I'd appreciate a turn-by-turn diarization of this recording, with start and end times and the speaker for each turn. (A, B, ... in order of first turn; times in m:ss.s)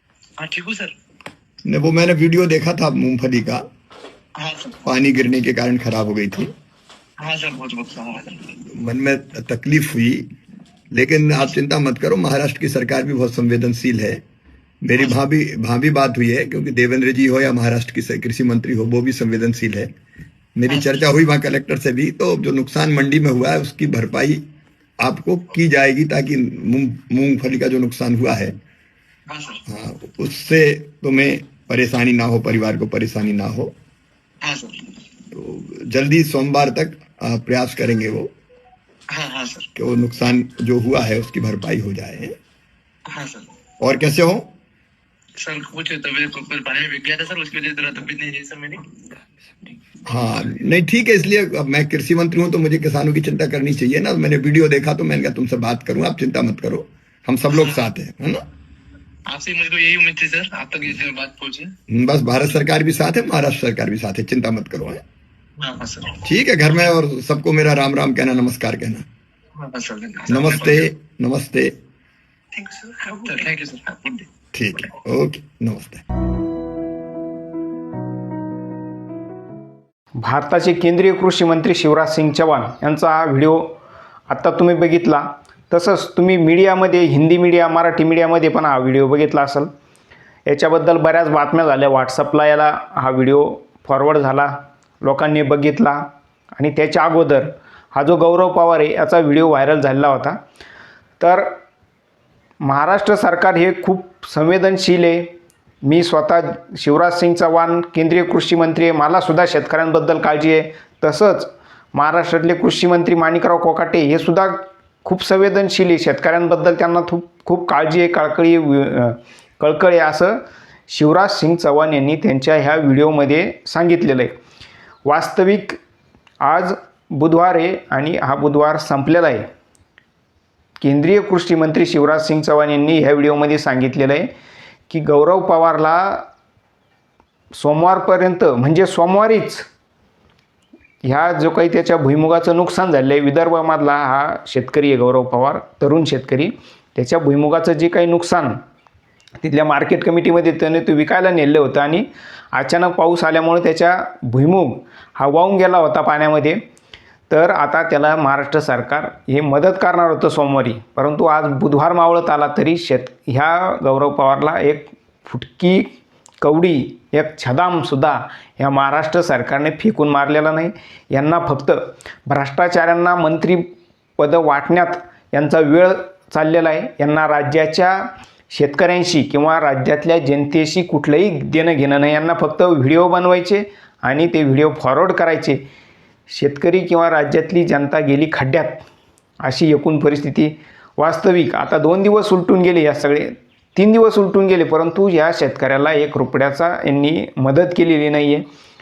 0:00.4-0:01.0 A
0:01.6-0:03.6 B
0:04.4-0:04.8 A
0:04.8-0:06.5 B
0:07.2-0:08.6 A
0:08.7-0:10.3 B
0:11.0-0:14.2 B
0:14.8-0:19.9 B
0:20.6-0:24.4 B
0:20.7-0:21.0 A
0:25.0-0:28.5 B
0:29.3-0:29.6 A
0:29.6-0:33.7 B
0:34.4-0:35.0 A
0:35.3-0:38.3 B
0:39.1-0:39.7 A
0:39.8-0:42.4 B
0:43.1-0:43.5 A
0:43.8-0:44.5 B
0:45.4-0:48.9 A
0:50.1-0:58.4 B
0:57.5-0:57.8 A
0:59.3-1:01.7 A
1:01.9-1:05.0 B
1:05.6-1:06.2 A
1:06.2-1:09.0 B
1:09.6-1:10.9 A
1:10.3-1:11.7 B
1:12.5-1:14.3 A
1:14.5-1:16.0 B
1:20.2-1:23.8 C
1:24.3-1:29.7 C
1:30.5-1:40.4 C
1:41.2-1:41.5 C
1:42.6-1:45.3 C
1:45.8-2:04.4 C
2:05.0-2:05.8 C
2:06.4-2:09.5 C
2:10.8-2:14.3 C
2:14.9-2:16.3 C
2:17.5-2:19.7 C
2:21.0-2:28.6 C
2:29.4-2:36.6 C
2:37.3-2:53.7 C
2:54.2-3:05.6 C
3:06.3-3:08.8 C
3:09.4-3:18.4 C